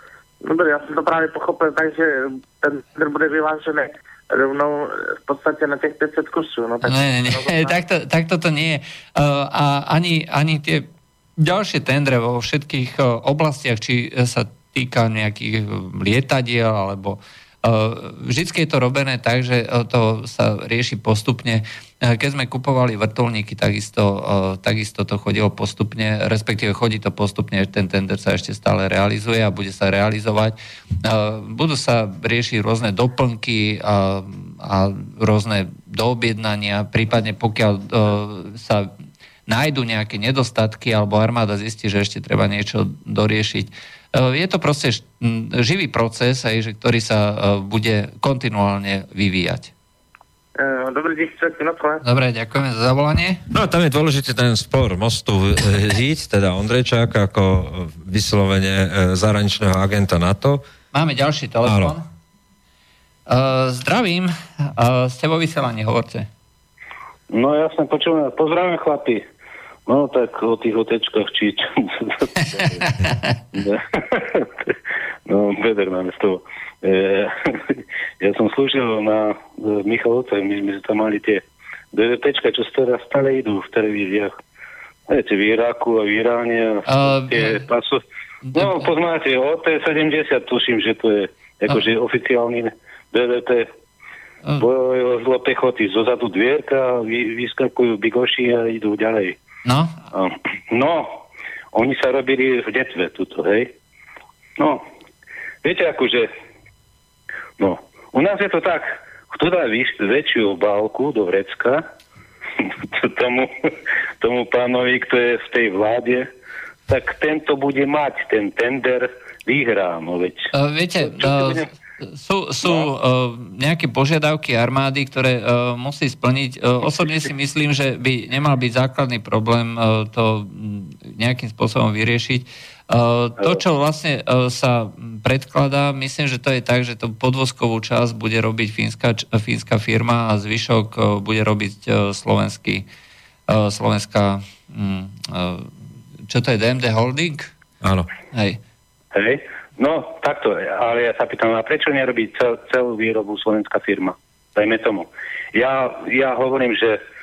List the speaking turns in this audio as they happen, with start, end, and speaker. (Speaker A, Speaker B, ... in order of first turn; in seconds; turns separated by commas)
Speaker A: 0.4-7.8, Speaker B: 6.8-38.9, Speaker B: 39.5-49.7, Speaker A: 50.6-52.0, Speaker B: 52.0-53.4, Speaker C: 53.5-60.6, Speaker B: 60.9-62.1, Speaker C: 61.6-62.0, Speaker B: 63.3-66.3, Speaker D: 67.3-69.2, Speaker D: 69.9-73.0, Speaker B: 72.8-73.3, Speaker D: 73.5-74.7, Speaker D: 75.3-84.3, Speaker D: 85.1-88.0, Speaker B: 86.9-87.7, Speaker B: 88.5-88.9, Speaker D: 88.5-93.7, Speaker D: 94.6-99.4, Speaker B: 99.7-99.9, Speaker D: 100.1-101.2, Speaker D: 101.7-103.7, Speaker D: 104.6-104.8, Speaker D: 105.6-106.3, Speaker D: 107.6-111.8, Speaker D: 112.6-113.5, Speaker D: 114.2-116.3, Speaker D: 116.9-120.5, Speaker B: 120.5-142.9, Speaker D: 121.1-121.7, Speaker B: 143.5-145.7, Speaker B: 146.3-147.5, Speaker C: 147.8-148.1, Speaker B: 148.3-148.6, Speaker D: 149.1-157.0